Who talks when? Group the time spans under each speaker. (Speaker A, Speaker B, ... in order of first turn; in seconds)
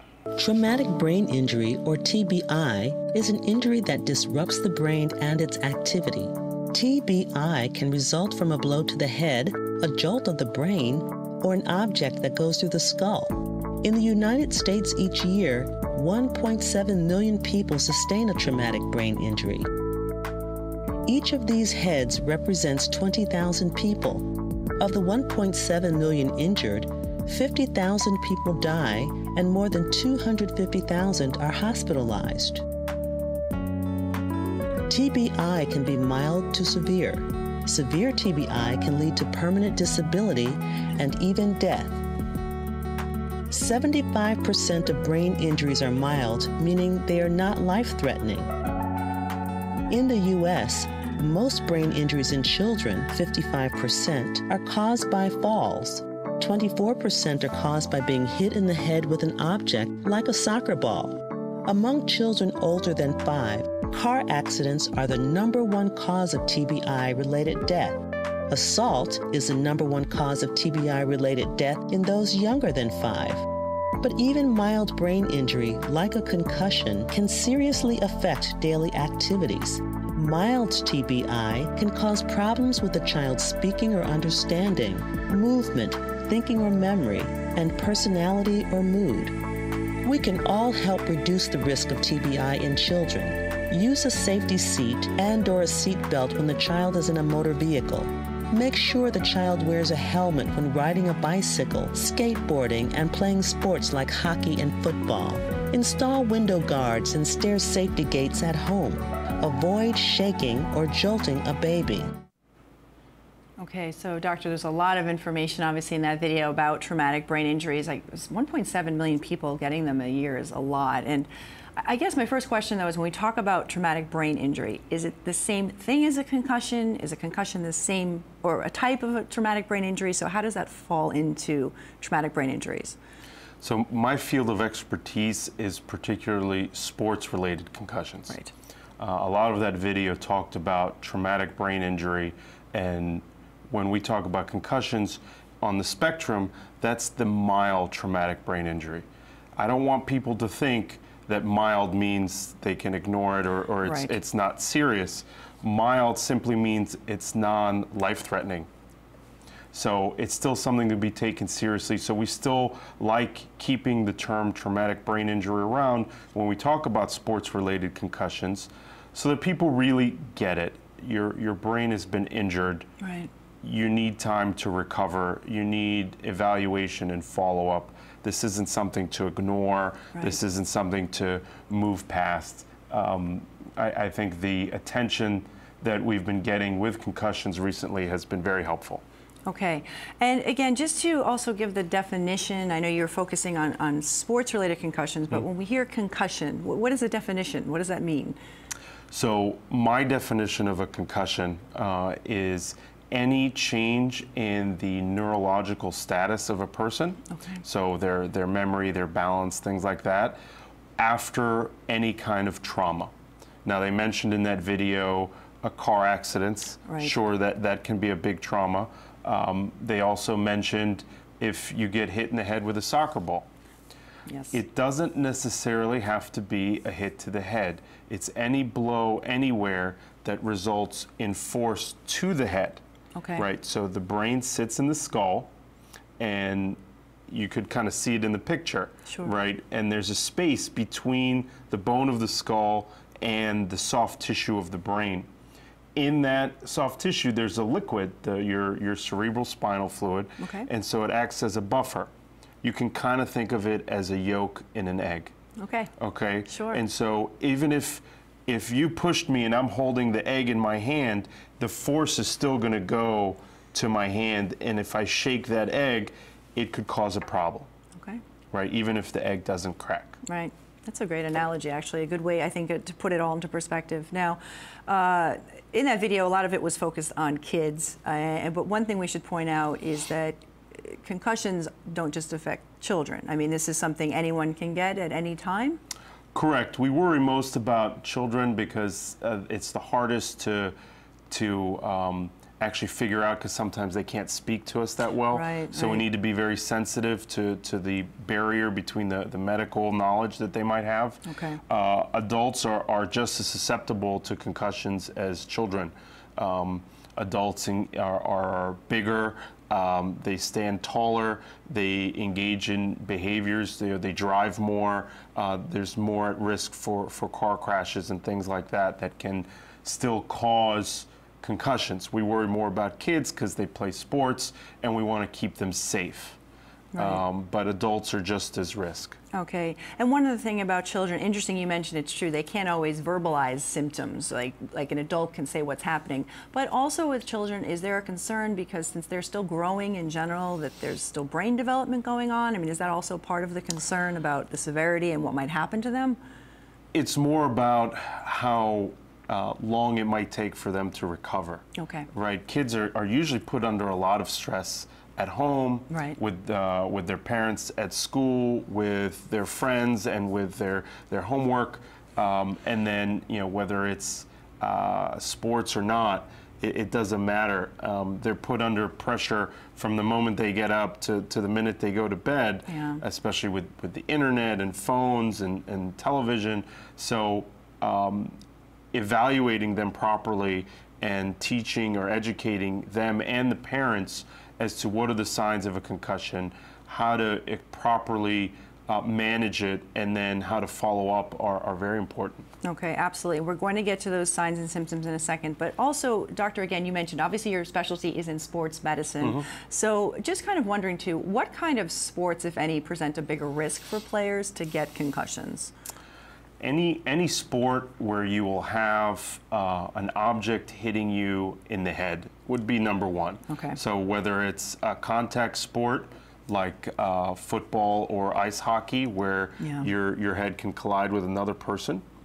Speaker A: 0.3-19.7, 21.1-32.6, 34.9-42.0, 43.5-48.5, 49.9-73.5, 74.0-89.4, 90.0-112.1
Speaker B: 113.6-133.0, 153.8-154.1, 173.0-173.3, 189.5-198.4, 207.3-207.6, 216.9-217.1, 224.3-224.6, 233.2-233.4, 239.1-239.3, 250.4-250.7, 255.6-255.9, 256.5-256.8, 270.3-285.8, 295.3-296.1, 301.3-301.6, 326.9-327.2, 329.3-346.2, 351.8-352.1, 355.9-356.2, 372.7-373.0, 392.6-405.7, 413.5-413.8, 419.6-419.9
Speaker C: 133.6-138.3, 139.0-149.1, 149.6-158.7, 159.7-172.9, 173.6-189.0, 199.1-210.4, 211.0-213.1, 213.7-223.5, 224.5-232.8, 233.4-235.5, 236.2-245.3, 246.0-252.1, 252.6-255.3, 256.0-267.7, 268.5-270.2, 286.4-290.8, 291.3-326.4, 327.0-329.2, 346.9-378.4, 378.9-392.5, 406.6-422.0